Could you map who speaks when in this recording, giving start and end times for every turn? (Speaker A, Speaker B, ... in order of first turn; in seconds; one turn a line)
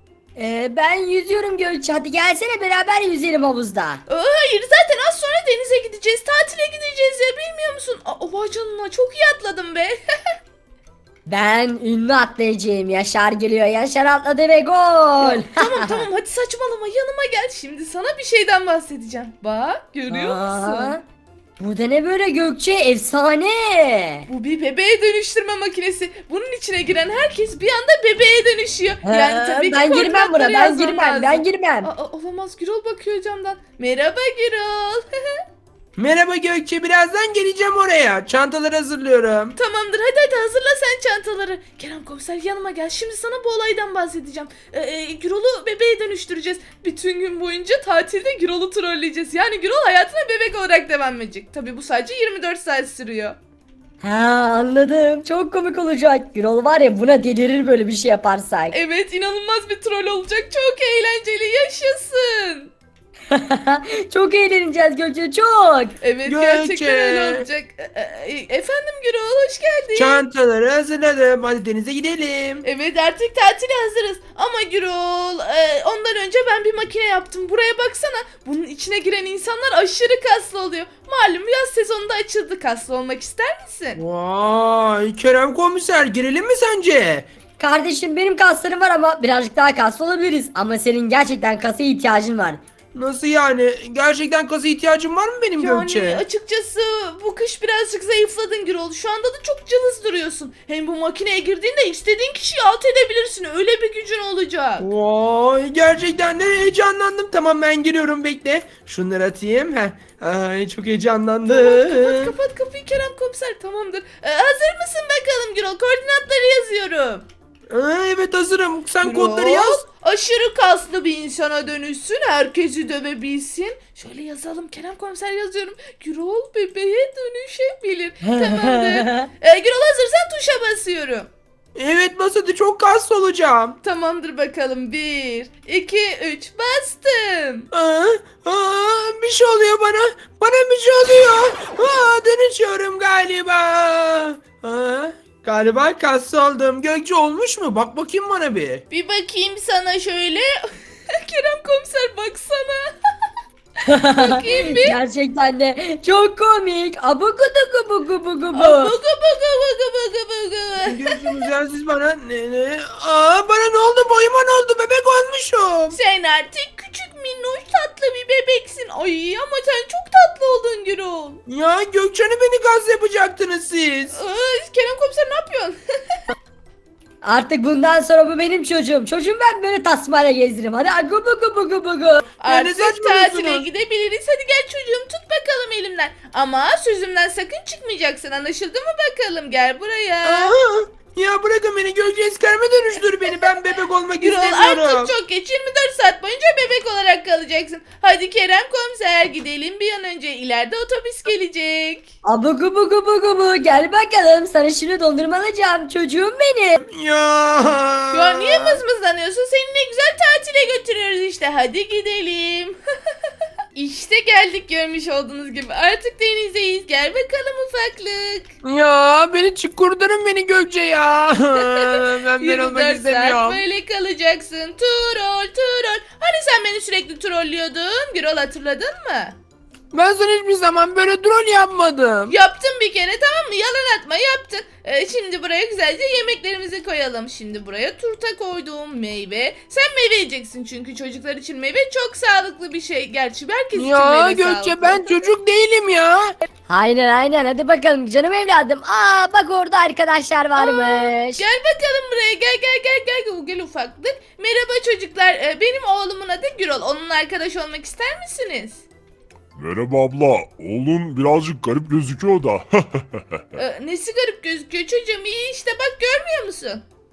Speaker A: 0.4-4.0
Speaker B: 4.1-10.0
Speaker A: 11.3-16.1
Speaker B: 15.2-21.0
Speaker A: 20.1-21.0
Speaker A: 21.6-24.3
Speaker B: 24.3-35.0
Speaker A: 29.0-31.9
Speaker C: 36.0-39.6
Speaker B: 39.6-53.4
Speaker A: 54.0-58.8
Speaker B: 58.7-62.7
Speaker A: 63.3-66.0
Speaker B: 66.0-70.2
Speaker C: 66.3-67.5
Speaker C: 69.9-72.7
Speaker B: 72.6-84.0
Speaker C: 84.0-87.3
Speaker A: 87.6-92.6
Speaker C: 92.9-96.2
Speaker B: 95.6-104.9
Speaker C: 104.8-112.3
Speaker B: 111.5-117.3
Speaker C: 117.7-119.8
Speaker B: 119.0-131.3
Speaker A: 128.3-129.3
Speaker C: 131.8-133.8
Speaker B: 133.8-137.7
Speaker C: 137.7-148.8
Speaker B: 148.9-150.6
Speaker B: 151.1-152.9
Speaker A: 153.9-158.9
Speaker B: 154.1-155.0
Speaker B: 158.5-161.4
Speaker C: 160.8-166.0
Speaker B: 165.9-171.4
Speaker C: 171.5-174.2
Speaker B: 174.1-176.2
Speaker A: 177.2-182.3
Speaker B: 182.4-190.5
Speaker C: 182.4-183.7
Speaker C: 190.2-195.1
Speaker B: 193.3-193.6
Speaker B: 194.2-202.1
Speaker A: 202.2-206.8
Speaker C: 206.8-208.8
Speaker B: 208.1-212.8
Speaker B: 213.7-218.5
Speaker C: 218.6-223.6
Speaker B: 221.8-229.4
Speaker C: 229.9-232.3
Speaker B: 232.3-245.1
Speaker C: 243.7-246.3
Speaker A: 246.7-251.4
Speaker B: 250.6-258.9
Speaker D: 259.6-263.4
Speaker B: 263.6-266.8